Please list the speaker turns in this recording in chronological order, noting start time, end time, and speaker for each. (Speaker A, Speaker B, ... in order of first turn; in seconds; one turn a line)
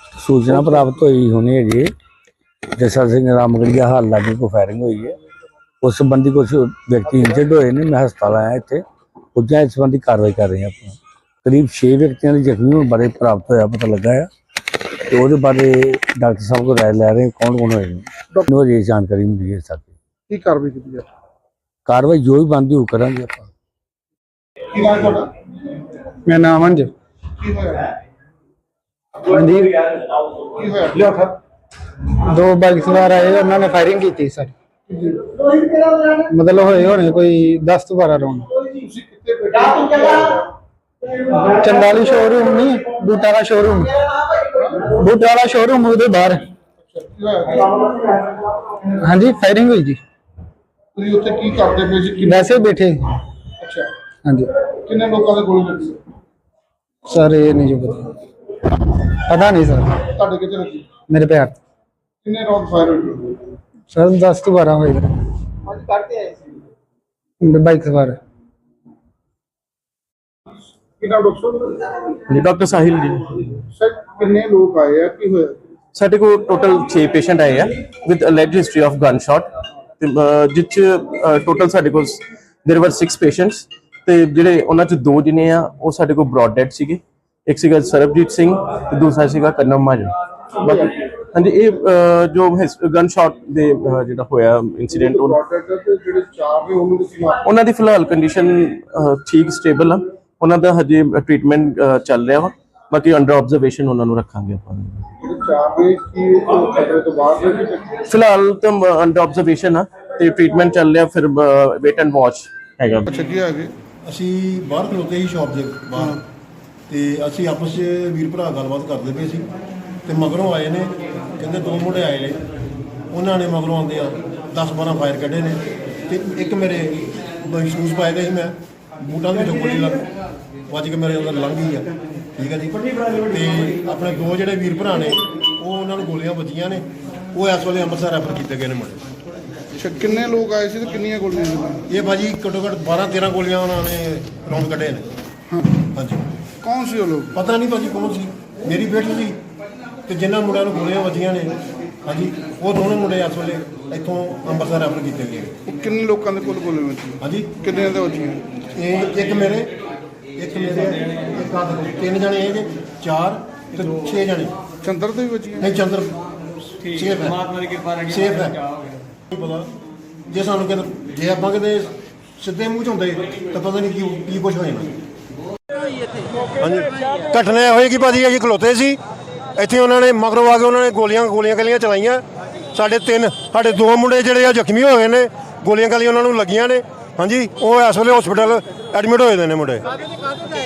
Speaker A: 0.2-1.9
Speaker A: 2.8-5.2
Speaker A: 5.8-8.8
Speaker A: 9.3-14.3
Speaker A: 15.1-19.9
Speaker B: 20.3-21.1
Speaker A: 21.9-23.5
Speaker B: 24.7-25.3
Speaker C: 26.3-26.9
Speaker B: 27.4-27.9
Speaker C: 29.2-29.8
Speaker B: 30.6-31.4
Speaker C: 32.1-34.5
Speaker B: 34.9-35.2
Speaker C: 36.3-38.5
Speaker B: 38.7-40.5
Speaker C: 41.3-43.9
Speaker C: 44.8-46.5
Speaker B: 46.9-48.0
Speaker C: 48.8-50.0
Speaker B: 51.0-52.5
Speaker C: 52.2-53.2
Speaker B: 53.6-53.9
Speaker C: 54.2-54.5
Speaker B: 54.8-56.0
Speaker C: 57.0-58.2
Speaker C: 58.9-60.0
Speaker B: 60.2-61.0
Speaker C: 61.1-61.6
Speaker B: 62.2-63.4
Speaker C: 63.9-65.2
Speaker B: 65.9-66.2
Speaker C: 67.4-68.2
Speaker B: 71.0-71.8
Speaker D: 72.3-73.6
Speaker B: 73.7-75.6
Speaker D: 75.9-95.4
Speaker B: 94.9-97.4
Speaker D: 97.4-105.0
Speaker B: 105.2-107.9
Speaker D: 108.0-113.1
Speaker B: 113.2-113.7
Speaker E: 114.0-116.2
Speaker E: 116.9-119.5
Speaker E: 120.0-122.4
Speaker E: 123.1-130.1
Speaker E: 130.7-139.0
Speaker B: 139.8-141.8
Speaker E: 141.9-145.1
Speaker E: 145.9-146.2
Speaker B: 146.6-147.3
Speaker E: 147.3-149.4
Speaker E: 150.1-155.5
Speaker B: 155.7-158.4
Speaker E: 157.2-157.5
Speaker E: 158.8-159.7
Speaker E: 160.3-164.6
Speaker B: 164.8-165.7
Speaker E: 165.6-168.7
Speaker E: 169.3-169.7
Speaker E: 170.3-175.0
Speaker E: 176.6-179.0
Speaker E: 179.6-189.9